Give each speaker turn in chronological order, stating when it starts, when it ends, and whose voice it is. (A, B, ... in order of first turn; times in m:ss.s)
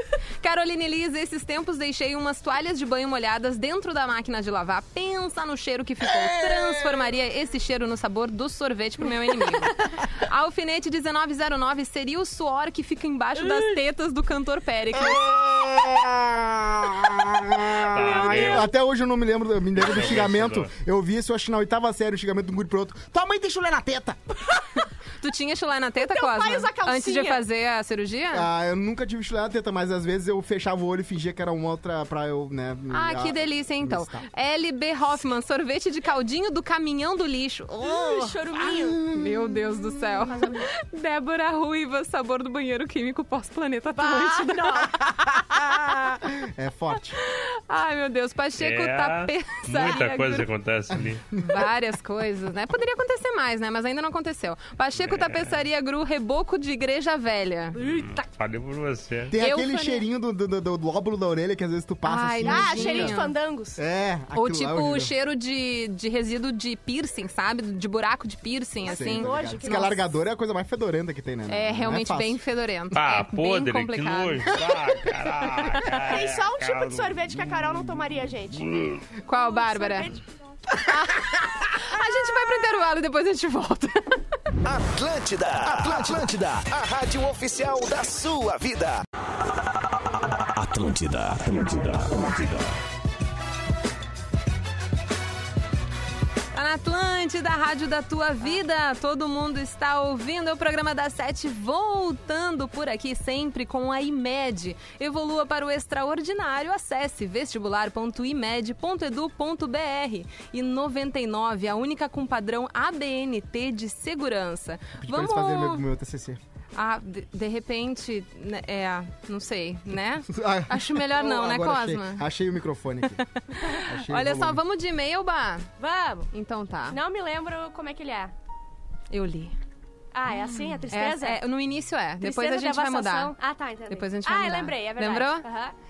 0:00.4-0:15.2 A
0:06.0-0:07.0 B
0:14.9-0:24.2 B
0:17.9-0:18.7 C
0:19.8-0:20.7 C
0:25.2-0:28.5 A
0:26.0-0:27.4 D
0:28.3-0:34.2 B
0:32.9-0:38.2 A
0:37.8-0:39.0 D
0:38.6-0:39.8 B
0:39.1-0:44.9 A
0:40.2-0:40.6 D
0:44.0-0:45.1 D
0:45.6-0:47.2 B
0:47.3-0:50.5 A
0:48.6-0:51.2 C
0:50.9-0:51.6 B
0:51.4-0:57.8 A
0:55.0-0:55.5 C
0:57.8-0:58.3 D
0:57.8-0:59.3 C
0:59.3-1:03.2 B
0:59.4-1:00.0 A
1:02.1-1:03.3 A
1:02.4-1:03.8 D
1:03.8-1:05.1 B
1:04.4-1:10.0 A
1:08.8-1:10.0 D
1:08.8-1:12.4 B
1:11.5-1:14.6 A
1:12.9-1:18.0 C
1:16.1-1:18.6 D
1:18.5-1:19.0 C
1:19.2-1:20.1 A
1:19.3-1:20.6 D
1:20.9-1:24.2 A
1:24.6-1:29.0 E
1:30.4-1:32.7 E
1:36.5-1:55.8 A
1:55.0-1:56.4 B
1:56.7-2:02.2 A
2:00.3-2:03.2 B
2:03.2-2:05.7 A
2:03.7-2:04.6 B
2:05.8-2:06.3 D
2:06.3-2:07.0 A
2:06.9-2:08.3 D
2:09.1-2:09.6 A
2:10.1-2:11.4 D
2:10.9-2:13.3 A
2:12.2-2:15.7 D
2:13.9-2:15.4 A